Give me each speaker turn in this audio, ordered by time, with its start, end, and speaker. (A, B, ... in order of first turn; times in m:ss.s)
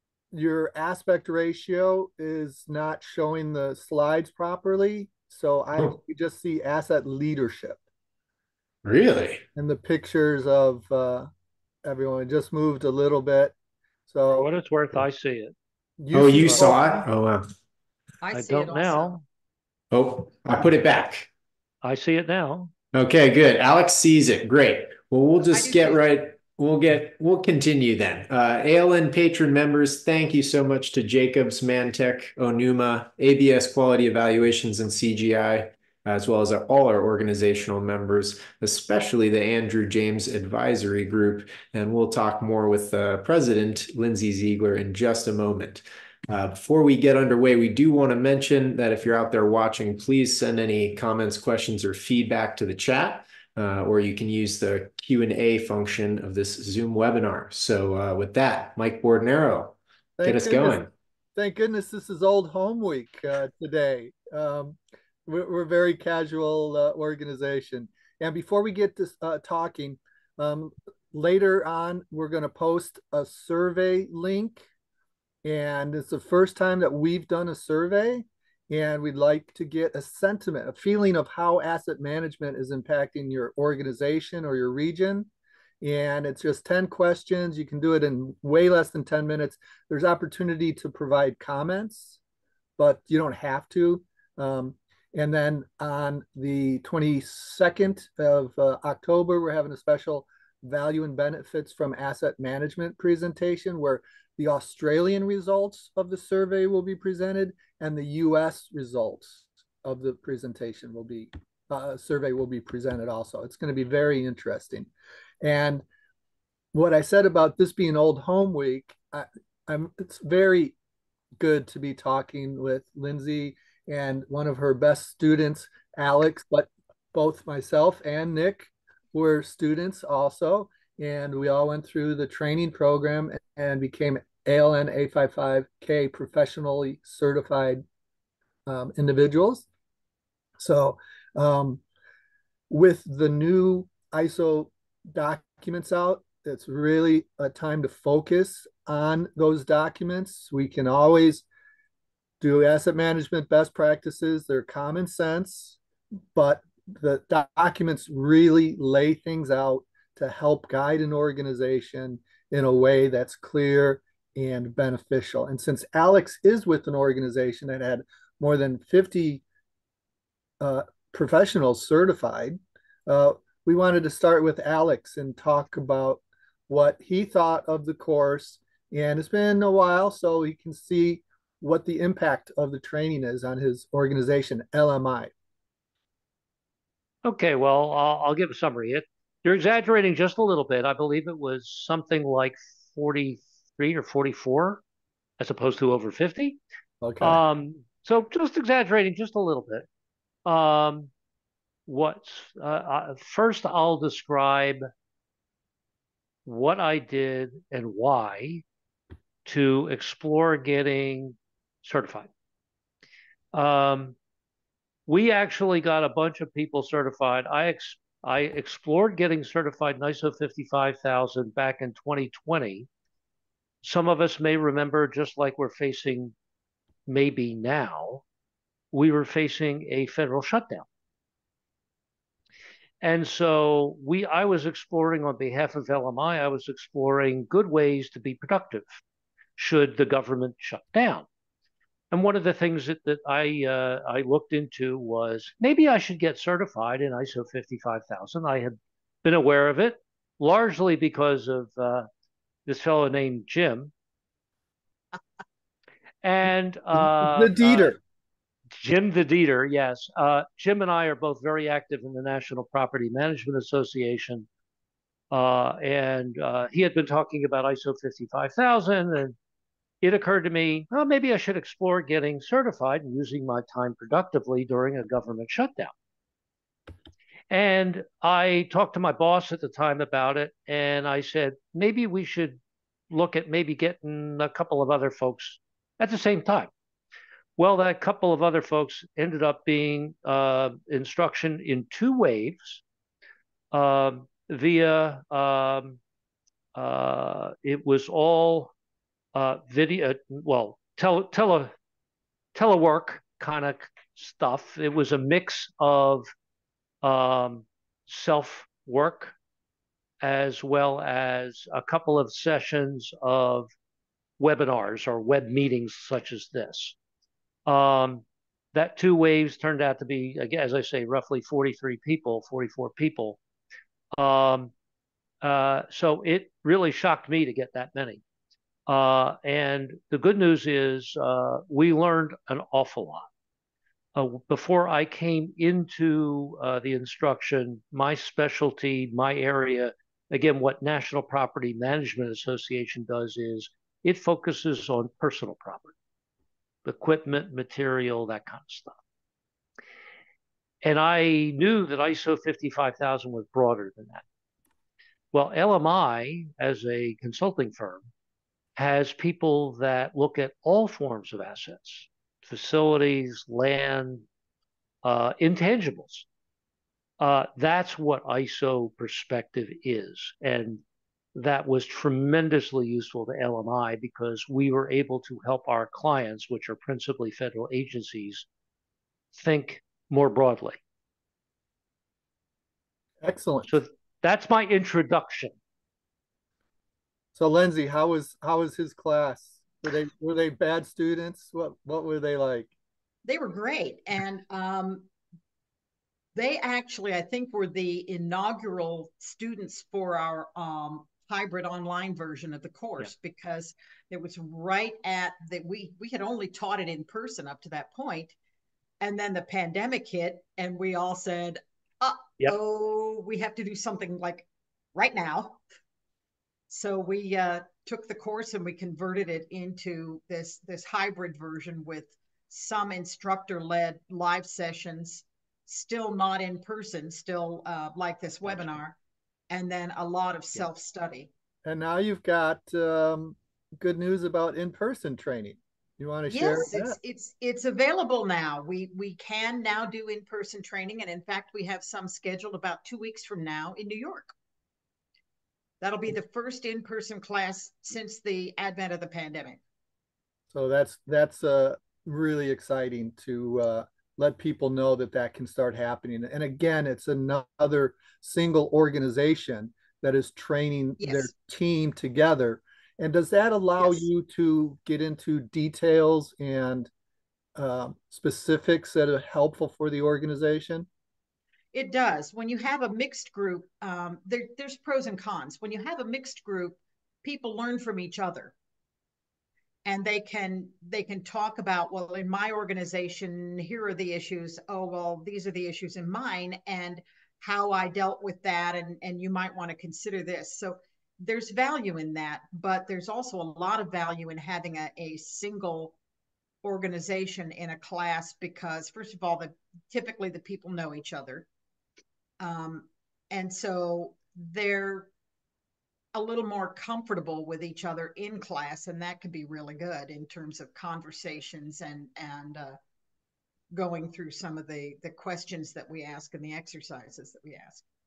0:00.3-0:07.8 A
0:08.8-0:09.4 B
0:09.6-0:11.3 A
0:11.8-0:13.6 A
0:14.1-0:14.5 A
0:14.3-0:15.5 C
0:16.0-0:17.1 A
0:16.1-0:17.5 B
0:18.2-0:19.2 D
0:18.3-0:19.2 C
0:19.9-0:21.3 B
0:21.8-0:22.7 C
0:22.9-1:00.9 B
0:25.5-0:26.0 D
1:00.2-1:00.8 A
1:01.4-1:14.6 A
1:15.4-1:25.3 A
1:25.8-1:32.2 A
1:32.8-1:54.9 A
1:55.4-1:55.8 A
1:56.7-2:00.8 A
2:01.4-2:17.8 A
2:18.7-2:19.6 A
2:20.6-2:21.8 A
2:22.7-2:31.5 A
2:32.4-2:35.8 A
2:36.3-2:49.4 A
2:50.6-3:05.3 A
3:07.2-3:14.8 C
3:15.4-3:16.6 C
3:17.0-3:17.4 A
3:17.2-3:19.9 C
3:20.5-3:21.1 C
3:21.9-3:24.8 C
3:26.5-3:28.6 C
3:29.4-3:32.3 C
3:33.5-3:34.2 C
3:35.1-3:42.9 C
3:43.8-3:46.3 C
3:47.1-3:48.2 C
3:48.9-3:50.9 C
3:53.0-3:58.8 C
3:59.6-4:01.3 C
4:02.1-4:12.1 C
4:12.7-4:13.9 C
4:16.2-4:18.0 C
4:17.0-4:18.0 A
4:18.8-4:24.5 C
4:25.3-4:29.4 C
4:30.0-4:35.9 C
4:37.5-4:42.6 C
4:43.1-4:46.7 C
4:47.6-4:52.8 C
4:53.7-4:56.0 C
4:56.8-4:58.7 C
4:59.4-5:01.7 C
5:02.6-5:06.3 C
5:07.0-5:09.3 C
5:10.2-5:13.7 C
5:14.4-5:17.0 C
5:17.7-5:23.4 C
5:24.2-5:24.7 C
5:25.4-5:28.2 C
5:28.9-5:33.3 C
5:34.2-5:45.9 C
5:46.8-5:49.0 C
5:50.8-5:54.2 C
5:55.3-5:58.1 C
5:58.8-6:04.2 C
6:05.0-6:06.3 C
6:07.2-6:10.8 C
6:11.4-6:18.5 C
6:19.3-6:20.8 C
6:23.2-6:23.8 A
6:23.7-6:25.6 C
6:27.4-6:32.7 A
6:33.2-6:35.1 D
6:36.4-6:48.4 D
6:49.0-6:55.6 D
6:56.7-7:09.0 D
7:09.5-7:11.3 D
7:11.6-7:17.0 A
7:16.3-7:24.4 D
7:25.8-7:29.6 D
7:30.5-7:46.9 A
7:41.0-7:41.3 D
7:43.8-7:44.1 D
7:47.6-7:50.9 A
7:51.7-7:58.5 D
7:59.8-8:16.0 D
8:16.6-8:21.5 D
8:22.4-8:25.1 D
8:26.1-8:32.8 D
8:33.7-8:37.8 D